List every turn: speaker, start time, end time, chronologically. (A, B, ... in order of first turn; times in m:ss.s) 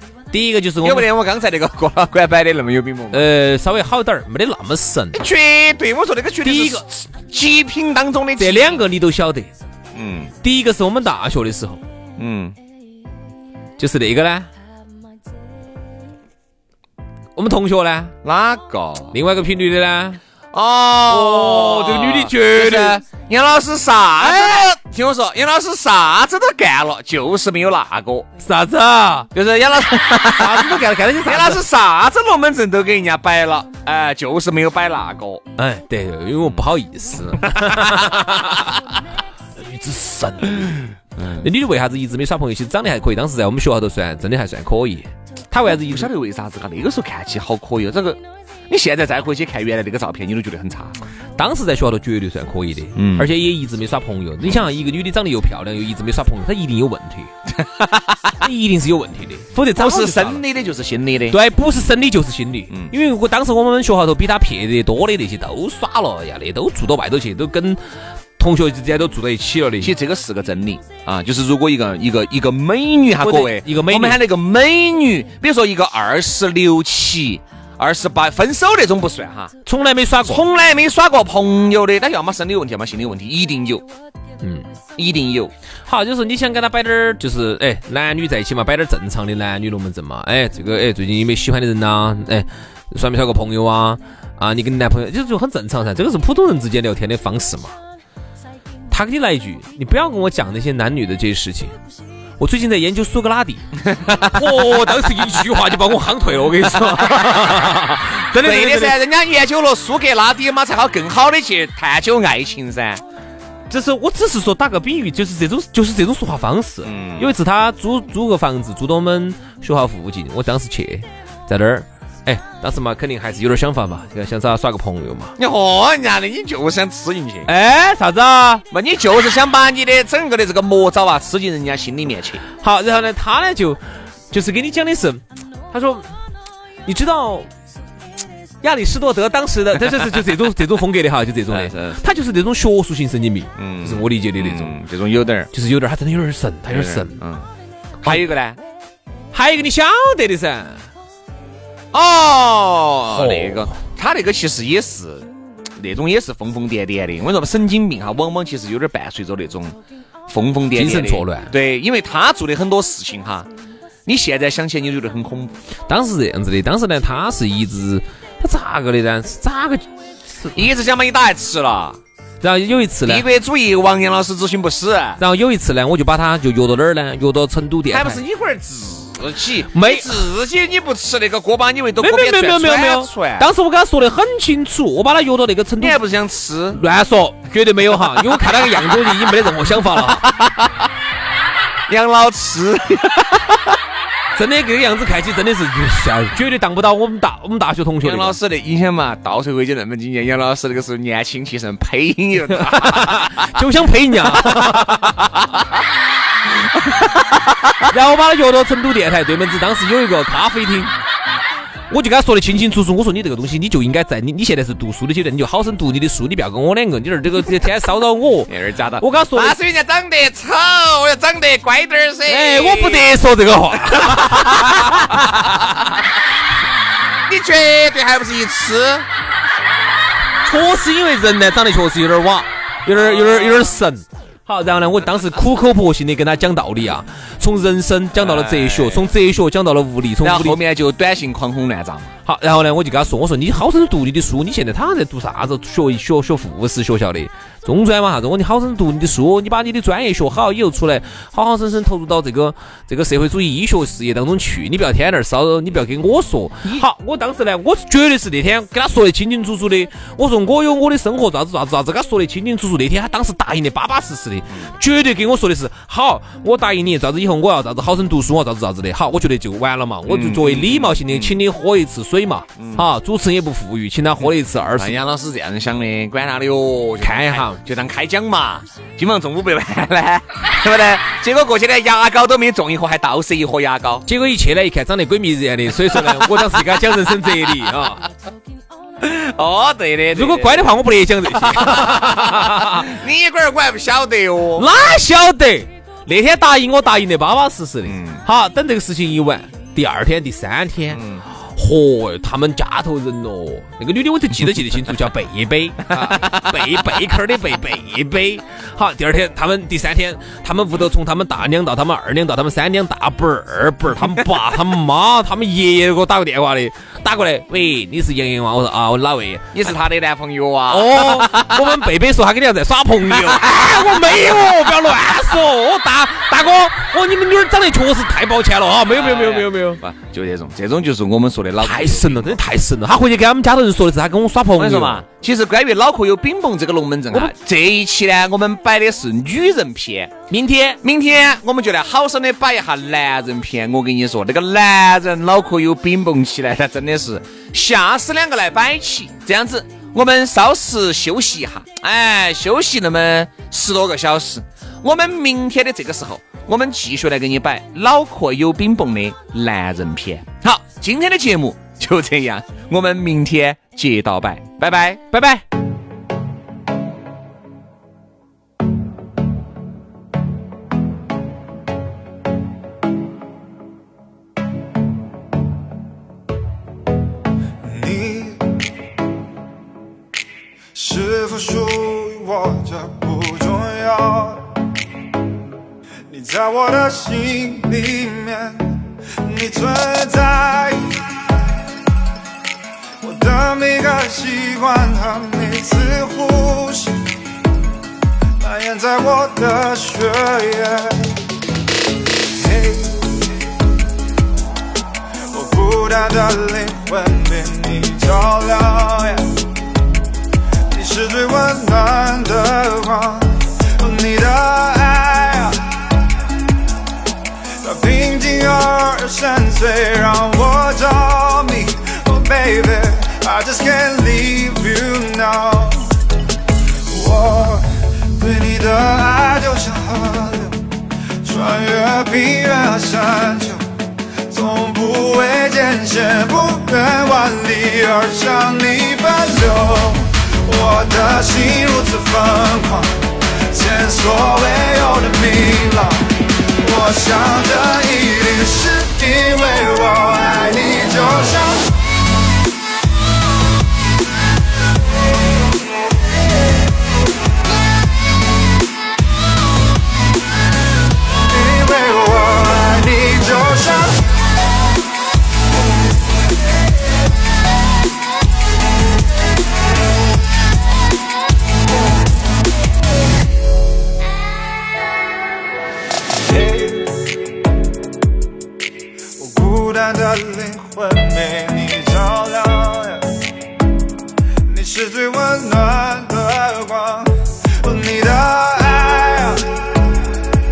0:00.3-0:01.1 A
0:00.8-0:03.3 B
0:03.1-0:05.2 A
0:05.1-0:08.8 B
0:06.4-0:06.8 A
0:08.4-0:09.5 A
0:09.9-0:10.3 B
0:10.4-0:11.8 A
0:12.2-0:12.6 B
0:13.8-0:14.5 A
0:17.4-0:18.1 A
0:18.2-0:19.2 B
0:19.1-0:20.2 A
0:20.5-0:28.3 B
0:21.1-0:23.0 A
0:24.2-0:24.7 A
0:28.4-0:29.3 A
0:29.3-0:35.4 B
0:30.2-0:31.6 A
0:35.6-0:38.8 A
0:37.3-0:38.4 B
0:39.6-0:46.1 A
0:41.2-0:41.5 B
0:45.7-0:51.0 B
0:51.4-0:57.3 A
0:53.0-0:53.3 B
0:57.5-0:58.4 B
0:58.4-1:00.4 A
0:59.8-1:01.4 B
1:01.3-1:07.8 A
1:08.4-1:09.9 A
1:09.8-1:19.5 B
1:13.2-1:14.2 A
1:19.6-1:20.5 A
1:20.2-1:23.9 B
1:25.0-1:25.5 B
1:25.9-1:37.8 A
1:38.9-1:41.8 A
1:42.4-1:43.7 A
1:43.8-1:44.9 B
1:44.2-1:49.0 A
1:46.8-1:47.8 B
1:48.4-1:53.0 B
1:53.7-2:05.4 A
1:56.8-1:57.3 B
2:05.4-2:07.5 B
2:07.5-2:08.6 A
2:08.7-2:12.4 B
2:12.6-2:13.8 A
2:14.3-2:16.0 A
2:16.9-2:17.5 A
2:18.6-2:24.8 A
2:21.5-2:22.0 B
2:23.6-2:25.5 B
2:25.5-2:27.2 A
2:26.7-2:27.5 B
2:28.0-2:28.6 B
2:29.3-2:30.8 A
2:31.9-2:39.8 B
2:33.1-2:33.8 A
2:40.3-2:43.5 B
2:40.8-2:41.5 A
2:44.1-2:45.6 B
2:45.9-2:50.6 A
2:50.5-2:52.0 B
2:52.4-2:53.2 A
2:53.1-2:55.2 B
2:55.2-2:58.2 A
2:57.9-3:03.5 B
2:59.7-3:00.2 A
3:02.0-3:06.0 A
3:05.8-3:06.8 B
3:06.7-3:10.3 A
3:07.9-3:10.9 B
3:11.9-3:13.8 B
3:14.4-3:18.4 A
3:18.0-3:23.5 B
3:22.6-3:25.2 A
3:24.3-3:25.6 B
3:26.7-3:27.7 B
3:27.9-3:30.9 A
3:31.9-3:39.6 A
3:38.5-3:43.1 B
3:42.3-3:45.6 A
3:43.9-3:45.8 B
3:47.3-3:49.1 B
3:50.4-4:00.6 A
3:52.9-3:53.7 B
3:58.1-3:59.1 B
4:00.2-4:02.2 B
4:02.2-4:35.0 A
4:30.1-4:31.4 B
4:32.6-4:32.9 B
4:34.2-4:44.1 B
4:37.0-4:37.6 A
4:44.1-4:48.1 A
4:45.9-4:46.9 B
4:49.0-4:50.8 B
4:50.1-4:52.9 A
4:51.3-4:54.7 B
4:54.6-5:19.6 A
4:57.9-4:58.2 B
5:00.9-5:01.2 B
5:05.9-5:06.6 B
5:19.5-5:21.9 B
5:20.7-5:29.8 A
5:23.1-5:25.3 B
5:28.8-5:32.4 B
5:31.6-5:35.0 A
5:34.6-5:40.1 B
5:40.3-5:40.8 A
5:40.8-6:05.1 B
6:05.1-6:05.4 A
6:17.6-6:18.5 C
6:20.7-6:24.5 C
6:26.1-6:31.6 C
6:33.0-6:37.0 C
6:38.4-6:41.2 C
6:42.2-6:43.3 C
6:45.3-6:49.2 C
6:50.7-6:56.0 C
6:57.6-7:06.0 C
7:06.9-7:10.6 C
7:11.2-7:13.6 C
7:14.3-7:22.9 C
7:23.5-7:31.7 C
7:41.3-7:44.0 C
7:56.2-7:57.0 C
7:59.2-8:03.0 C
8:04.5-8:10.1 C